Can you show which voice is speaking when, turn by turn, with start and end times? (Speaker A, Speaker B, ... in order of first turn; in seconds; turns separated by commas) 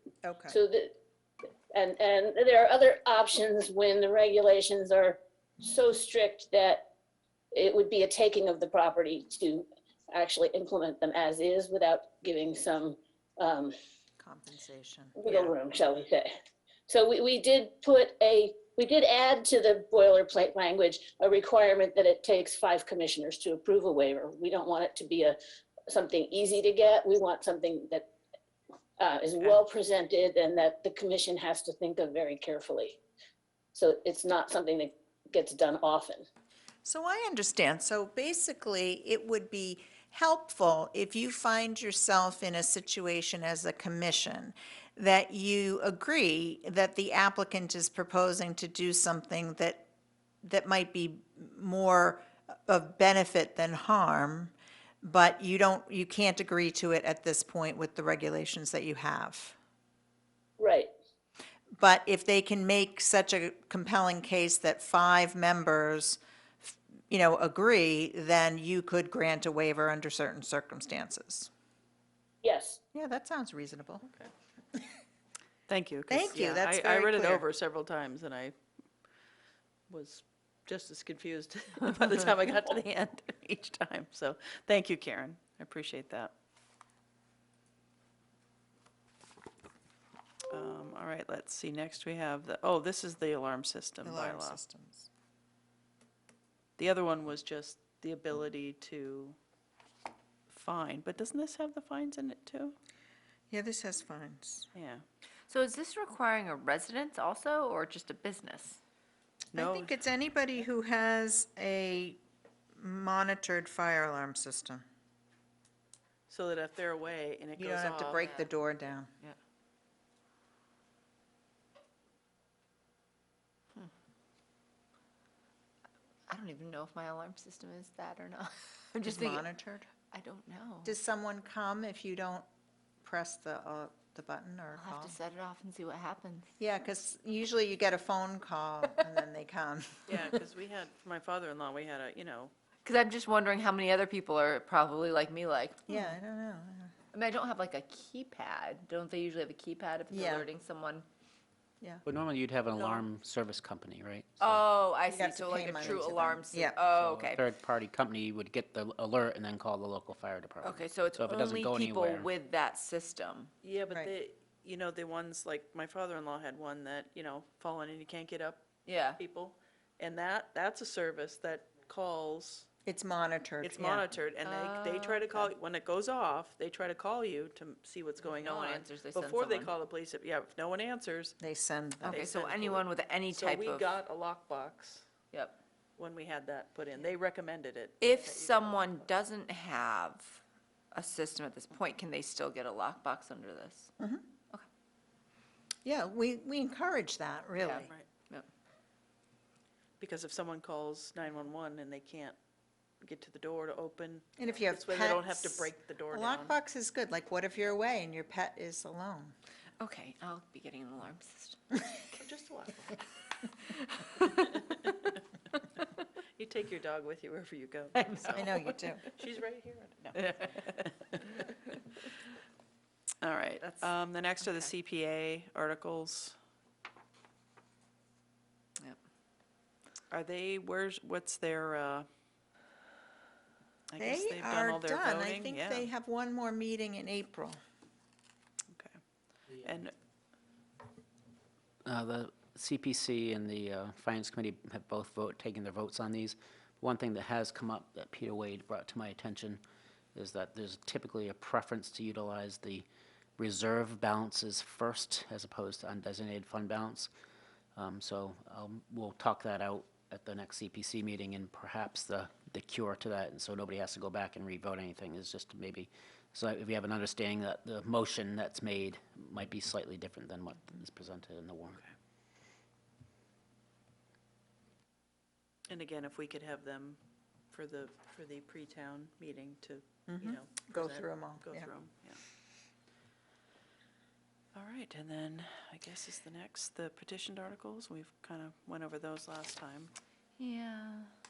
Speaker A: 0.2-0.6, Speaker B: 0.5-0.9, Speaker B: 1.7-6.9, Speaker B: 7.5-13.7, Speaker A: 14.2-15.5, Speaker B: 15.2-16.3, Speaker B: 16.9-25.4, Speaker B: 25.9-28.1, Speaker B: 29.0-33.0, Speaker B: 33.7-36.3, Speaker A: 36.8-49.8, Speaker A: 50.4-59.6, Speaker B: 60.6-60.9, Speaker A: 61.8-71.5, Speaker B: 72.4-72.8, Speaker A: 72.9-74.1, Speaker C: 74.0-74.3, Speaker C: 75.7-78.5, Speaker A: 76.1-77.4, Speaker C: 79.9-86.3, Speaker C: 90.5-94.6, Speaker A: 94.0-95.1, Speaker C: 96.8-99.4, Speaker C: 100.5-102.8, Speaker A: 103.5-104.7, Speaker C: 104.8-105.0, Speaker D: 105.5-108.8, Speaker C: 109.5-110.0, Speaker A: 109.5-112.2, Speaker A: 112.8-114.8, Speaker C: 116.3-118.3, Speaker A: 117.6-119.1, Speaker D: 118.0-118.5, Speaker D: 126.3-129.5, Speaker A: 129.0-129.9, Speaker D: 130.0-130.9, Speaker A: 130.8-132.5, Speaker A: 133.0-135.2, Speaker D: 134.8-136.5, Speaker A: 136.6-140.4, Speaker C: 140.1-142.5, Speaker D: 142.8-146.1, Speaker A: 145.9-146.9, Speaker D: 147.1-151.1, Speaker A: 150.1-150.5, Speaker E: 152.0-154.7, Speaker D: 154.4-157.5, Speaker A: 155.1-156.8, Speaker E: 156.9-162.3, Speaker D: 160.6-163.5, Speaker C: 163.6-168.7, Speaker D: 168.8-169.2, Speaker C: 169.2-172.7, Speaker A: 172.8-174.0, Speaker C: 173.6-181.3, Speaker D: 174.4-175.5, Speaker D: 178.2-179.7, Speaker A: 181.4-182.2, Speaker D: 182.0-183.9, Speaker C: 182.0-185.1, Speaker D: 185.3-185.6, Speaker C: 186.0-189.1, Speaker D: 188.0-190.4, Speaker D: 190.9-193.9, Speaker A: 195.8-197.9, Speaker D: 197.6-198.5, Speaker C: 197.8-198.1, Speaker C: 200.0-202.4, Speaker C: 203.0-206.5, Speaker A: 204.4-209.3, Speaker D: 209.8-212.1, Speaker C: 212.2-213.0, Speaker D: 213.6-214.4, Speaker C: 214.3-215.1, Speaker C: 216.3-221.4, Speaker D: 218.1-218.7, Speaker A: 218.3-219.0, Speaker C: 223.2-226.4, Speaker D: 223.6-223.9, Speaker C: 230.1-232.1, Speaker C: 233.9-235.9, Speaker A: 234.0-237.6, Speaker C: 238.7-239.0, Speaker C: 239.6-239.9, Speaker E: 241.8-249.6, Speaker E: 250.1-252.8, Speaker E: 253.4-257.1, Speaker E: 257.7-271.8, Speaker C: 275.7-277.0, Speaker C: 277.5-282.2, Speaker A: 280.1-281.7, Speaker C: 284.5-289.9, Speaker D: 290.4-291.1